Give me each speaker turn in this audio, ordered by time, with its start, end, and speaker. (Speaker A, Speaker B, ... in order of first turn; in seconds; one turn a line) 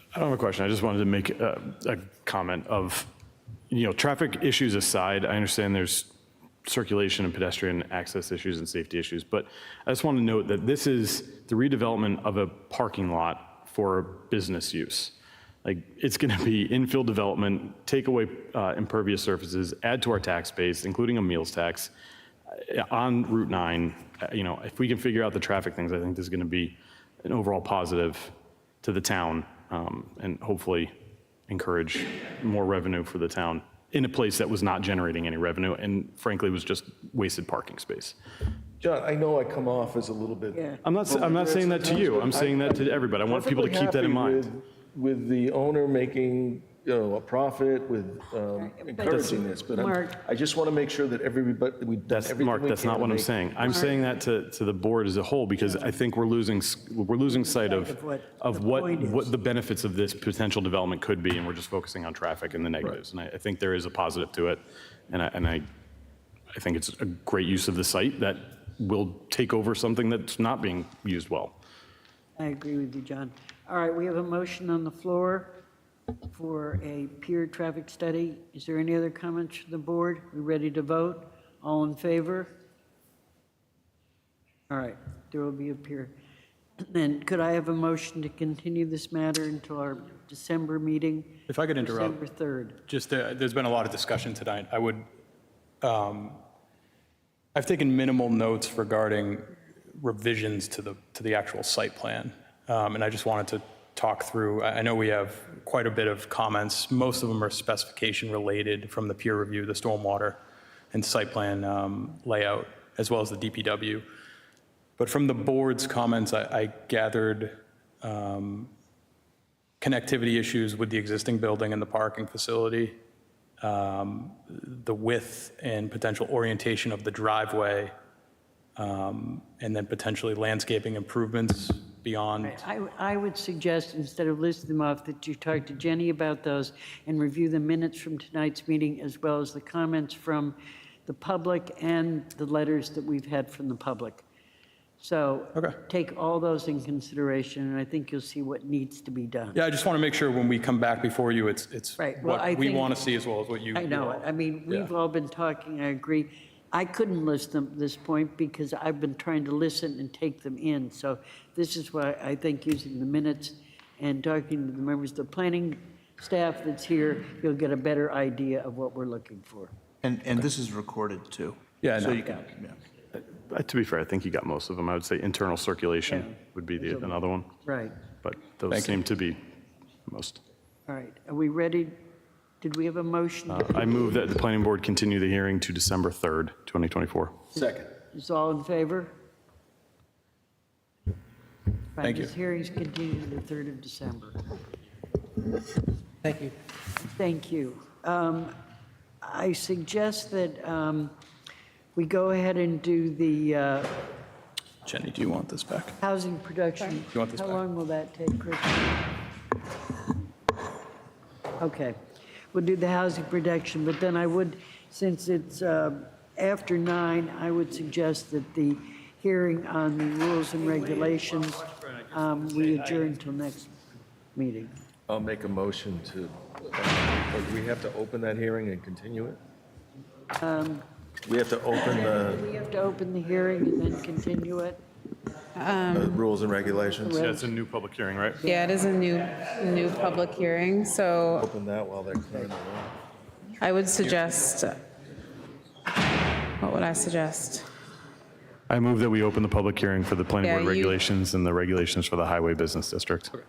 Speaker A: 0.1-3.1
Speaker A: 3.7-6.1
Speaker A: 6.7-21.9
Speaker A: 22.5-30.9
Speaker A: 31.5-38.2
Speaker B: 38.8-53.9
Speaker C: 40.5-40.8
Speaker A: 40.8-44.5
Speaker C: 48.5-50.2
Speaker A: 52.1-65.7
Speaker C: 53.7-54.1
Speaker C: 55.6-56.0
Speaker C: 57.3-59.3
Speaker A: 66.5-71.5
Speaker C: 72.4-75.6
Speaker C: 76.3-82.5
Speaker C: 84.7-86.2
Speaker C: 86.8-92.8
Speaker D: 91.5-92.2
Speaker D: 92.8-95.0
Speaker D: 95.8-96.4
Speaker D: 97.5-110.4
Speaker D: 110.9-114.0
Speaker D: 115.0-118.7
Speaker D: 119.8-123.0
Speaker D: 123.6-127.9
Speaker D: 128.8-132.6
Speaker C: 132.4-144.2
Speaker C: 145.0-149.6
Speaker D: 145.5-145.8
Speaker D: 149.5-154.3
Speaker C: 152.0-153.0
Speaker C: 153.7-169.7
Speaker E: 170.0-172.8
Speaker D: 171.8-172.2
Speaker A: 173.2-179.4
Speaker C: 176.1-178.0
Speaker D: 178.7-179.0
Speaker A: 180.1-180.4
Speaker C: 180.9-182.0
Speaker C: 182.6-183.8
Speaker A: 183.5-187.4
Speaker B: 187.5-187.9
Speaker C: 187.6-189.1
Speaker C: 191.9-194.4
Speaker D: 192.0-192.3
Speaker C: 196.3-198.6
Speaker C: 199.2-201.2
Speaker C: 201.9-204.1
Speaker D: 204.8-206.0
Speaker C: 206.0-209.1
Speaker D: 207.1-207.6
Speaker C: 211.6-212.0
Speaker C: 212.5-223.8
Speaker C: 224.3-224.7
Speaker B: 225.1-229.4
Speaker C: 230.4-230.8
Speaker B: 231.2-232.4
Speaker C: 231.8-234.8
Speaker F: 235.6-236.2
Speaker B: 235.9-237.1
Speaker C: 236.9-237.5
Speaker A: 237.1-238.4
Speaker C: 238.4-238.8
Speaker F: 238.4-241.4
Speaker B: 241.4-242.9
Speaker F: 243.6-244.8
Speaker F: 246.6-247.7
Speaker A: 248.7-253.3
Speaker F: 250.4-251.0